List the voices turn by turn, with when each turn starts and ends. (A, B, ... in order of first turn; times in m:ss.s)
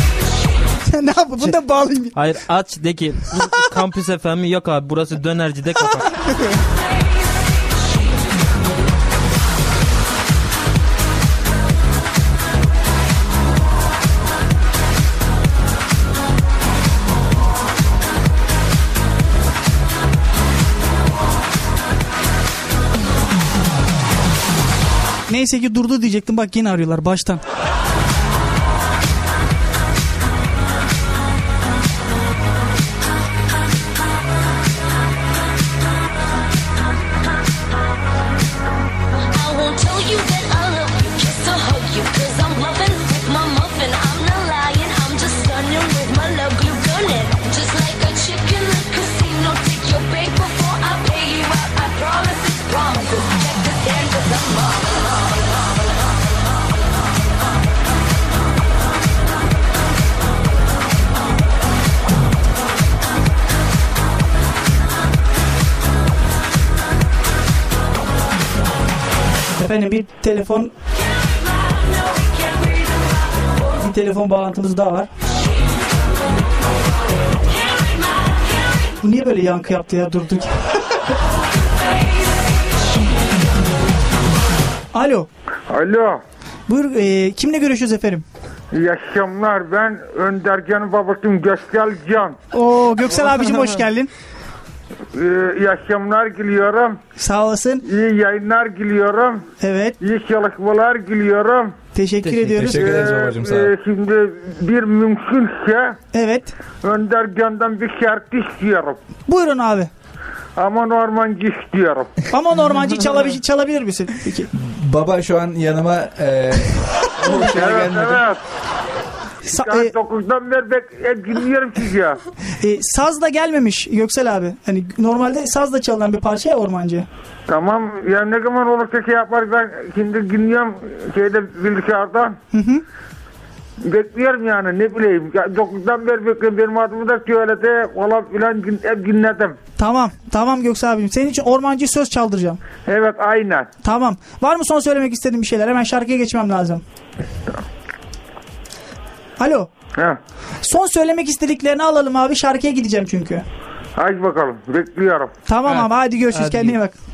0:00.8-0:02.2 A
0:02.1-0:06.4 B
0:25.3-0:27.4 A
0:39.3-0:55.7 C
1:09.6-1:10.7 A
1:12.1-1:12.9 C
1:13.7-1:15.1 A
1:19.0-1:20.6 A
1:24.9-1:25.3 A
1:25.7-1:26.2 D
1:26.7-1:28.2 A
1:28.7-1:32.4 D
1:32.5-1:34.1 A
1:35.1-1:37.0 D
1:37.2-1:37.8 A
1:37.8-1:39.5 D
1:39.6-1:40.0 A
1:40.0-1:41.8 D
1:41.9-1:42.9 A
1:42.2-1:42.6 B
1:42.5-1:43.7 E
1:42.8-1:46.0 D
1:46.1-1:46.5 A
1:46.8-1:49.0 D
1:49.3-1:49.9 A
1:50.6-1:52.1 D
1:52.3-1:54.5 A
1:54.6-1:58.2 E
1:57.4-1:58.4 D
1:59.5-1:59.9 A
1:59.5-2:02.2 D
2:02.6-2:07.1 A
2:07.5-2:12.4 D
2:12.5-2:12.8 A
2:13.8-2:19.6 D
2:19.8-2:22.6 A
2:22.8-2:23.7 D
2:23.8-2:26.8 A
2:29.4-2:29.7 A
2:30.6-2:33.4 A
2:34.0-2:35.3 D
2:35.5-2:36.9 A
2:35.6-2:36.8 B